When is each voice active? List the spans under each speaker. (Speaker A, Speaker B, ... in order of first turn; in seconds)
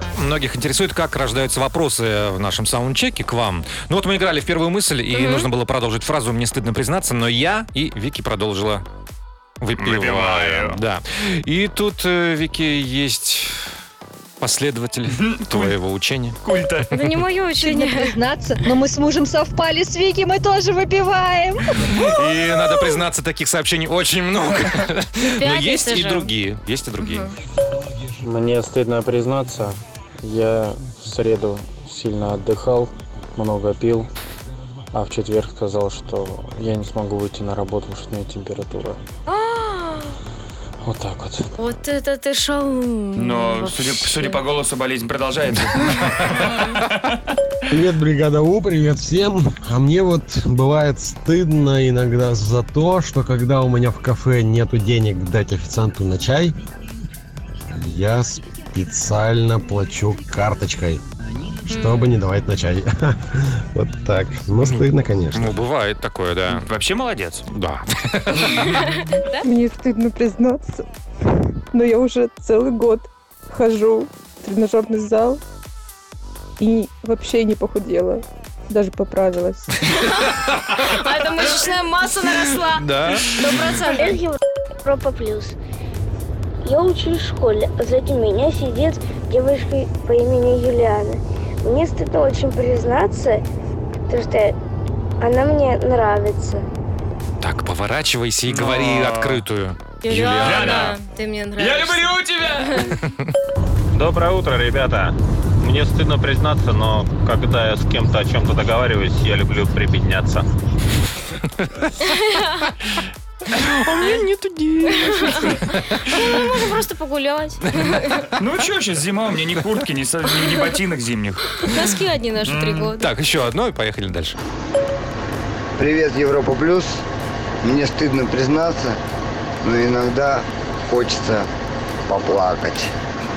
Speaker A: 0.2-8.8, 9.6-13.6, 14.4-16.4, 21.8-27.4, 65.3-66.7, 67.5-68.8, 80.3-80.7, 82.4-83.7, 97.4-100.7, 103.0-103.3, 113.5-116.6, 117.6-118.0, 123.0-124.4
Speaker B: 5.1-5.5, 16.9-18.1, 25.3-26.3, 27.0-27.4, 39.3-40.1, 41.6-44.4, 61.7-62.1, 80.8-84.2, 100.0-102.8, 114.8-118.1, 121.6-123.1
Speaker C: 9.8-10.8, 15.2-15.7, 16.4-16.9, 43.1-47.0, 66.5-67.4, 98.5-99.5, 100.3-101.0, 101.6-102.8, 118.4-121.7, 122.5-122.9
Speaker D: 17.6-21.9
Speaker E: 28.2-34.1, 34.9-39.0, 40.8-41.5
Speaker F: 47.7-56.5, 57.7-61.0, 61.7-65.6
Speaker G: 69.4-70.8, 71.7-75.4, 76.6-79.8
Speaker H: 83.7-85.6, 86.7-93.4, 94.1-94.6, 95.2-96.7
Speaker I: 104.0-105.1, 105.6-110.4
Speaker J: 125.8-127.0, 127.6-129.0, 129.6-131.5, 132.1-132.9